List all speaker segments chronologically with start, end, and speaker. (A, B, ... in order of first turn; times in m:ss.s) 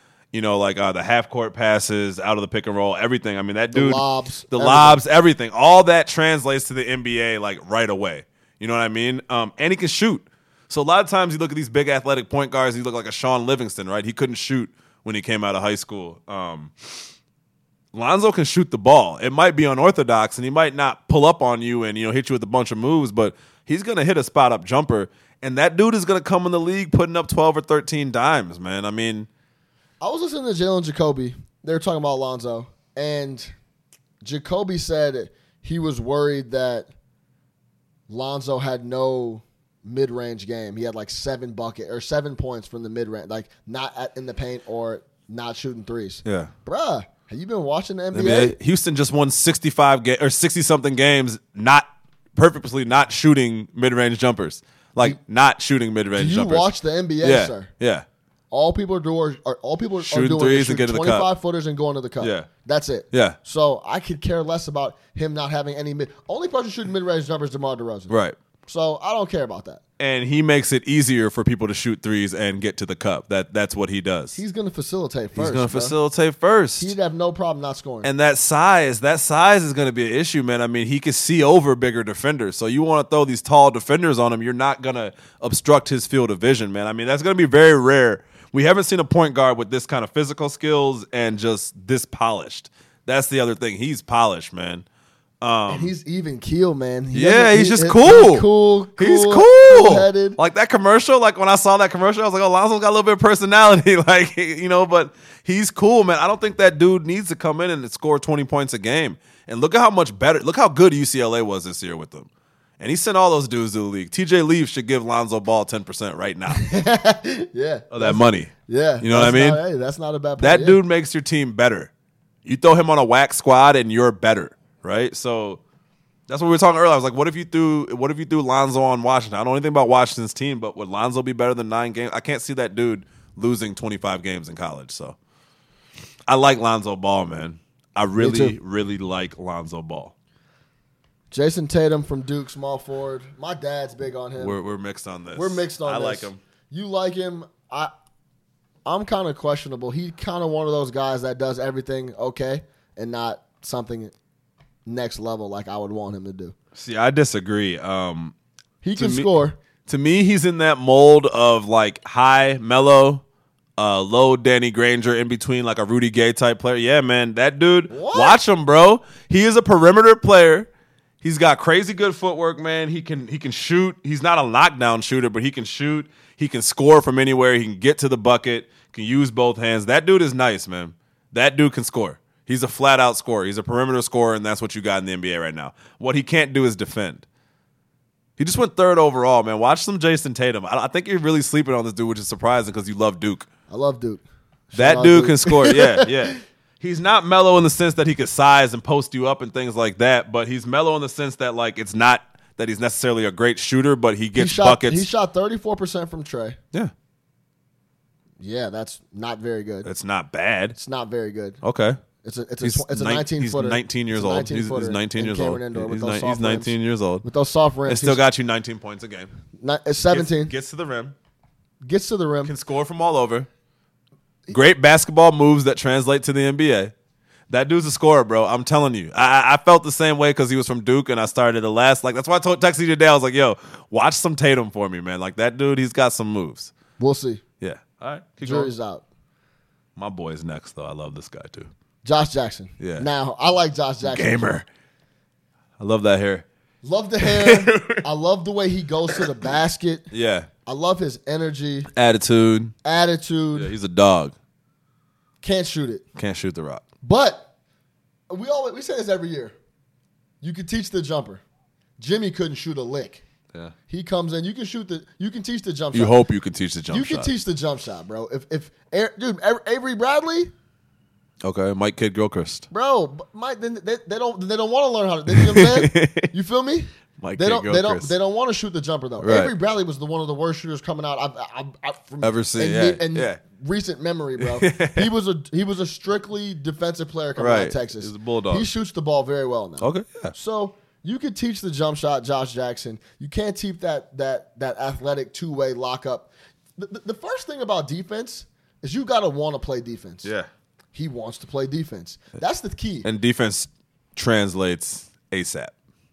0:00.3-0:16.7 A
0:03.7-0:05.0 B
0:17.9-0:29.3 A
0:30.0-0:33.5 B
0:34.2-0:36.9 B
0:38.1-0:48.6 B
0:46.2-0:46.5 A
0:48.1-0:56.7 A
0:56.2-0:57.7 B
0:57.2-0:58.1 A
0:58.5-1:09.8 B
1:00.0-1:01.3 A
1:02.2-1:02.5 A
1:03.1-1:03.4 A
1:08.1-1:08.4 A
1:10.0-1:14.4 A
1:14.4-1:16.0 B
1:15.4-1:17.0 A
1:16.8-1:18.1 B
1:18.0-1:34.8 A
1:35.4-1:35.9 A
1:35.7-1:40.4 B
1:37.1-1:38.5 A
1:39.0-1:52.3 A
1:52.8-1:56.7 A
1:56.5-2:00.8 B
1:57.9-1:59.6 A
2:00.4-2:01.9 A
2:02.4-2:05.6 A
2:06.3-2:15.2 A
2:16.3-2:20.1 A
2:18.2-2:18.6 B
2:21.3-2:24.6 B
2:24.4-2:26.4 A
2:25.4-2:27.9 B
2:28.8-2:34.1 B
2:34.9-2:36.6 B
2:36.8-2:38.3 A
2:38.8-2:39.6 B
2:39.0-2:39.3 A
2:39.9-2:43.2 A
2:43.8-2:50.7 A
2:47.9-2:48.4 B
2:51.2-3:07.3 A
3:08.4-3:13.5 A
3:13.7-3:16.4 B
3:14.7-3:25.1 A
3:24.4-3:26.6 B
3:28.4-3:29.9 B
3:29.8-3:30.8 A
3:30.8-3:31.6 B
3:31.6-3:32.0 A
3:32.2-3:38.2 B
3:32.6-3:37.2 A
3:37.9-3:39.3 A
3:39.6-3:40.5 B
3:40.1-3:41.2 A
3:41.8-3:42.5 B
3:42.4-3:43.5 A
3:44.5-3:46.9 A
3:47.5-3:56.7 A
3:57.0-3:57.4 B
3:57.6-3:58.7 A
3:58.4-3:59.1 B
4:00.0-4:01.7 A
4:02.0-4:04.5 B
4:02.8-4:03.1 A
4:04.0-4:04.7 A
4:05.8-4:06.4 A
4:06.8-4:10.1 B
4:07.2-4:08.0 A
4:10.1-4:10.5 A
4:10.7-4:11.9 B
4:11.9-4:12.7 A
4:12.8-4:13.7 B
4:13.6-4:14.4 A
4:15.4-4:16.0 B
4:16.2-4:16.8 A
4:17.0-4:17.5 B
4:18.3-4:19.6 B
4:20.4-4:21.4 B
4:22.0-4:23.2 B
4:23.9-4:26.2 B
4:25.9-4:27.3 A
4:26.9-4:30.5 B
4:31.4-4:32.7 A
4:32.7-5:00.3 B
4:35.3-4:36.3 A
4:37.2-4:38.1 A
4:39.2-4:39.5 A
4:42.2-4:43.4 A
4:44.4-4:45.1 A
4:47.4-4:48.7 A
4:49.8-4:50.3 A
5:00.9-5:03.1 B
5:03.0-5:05.7 A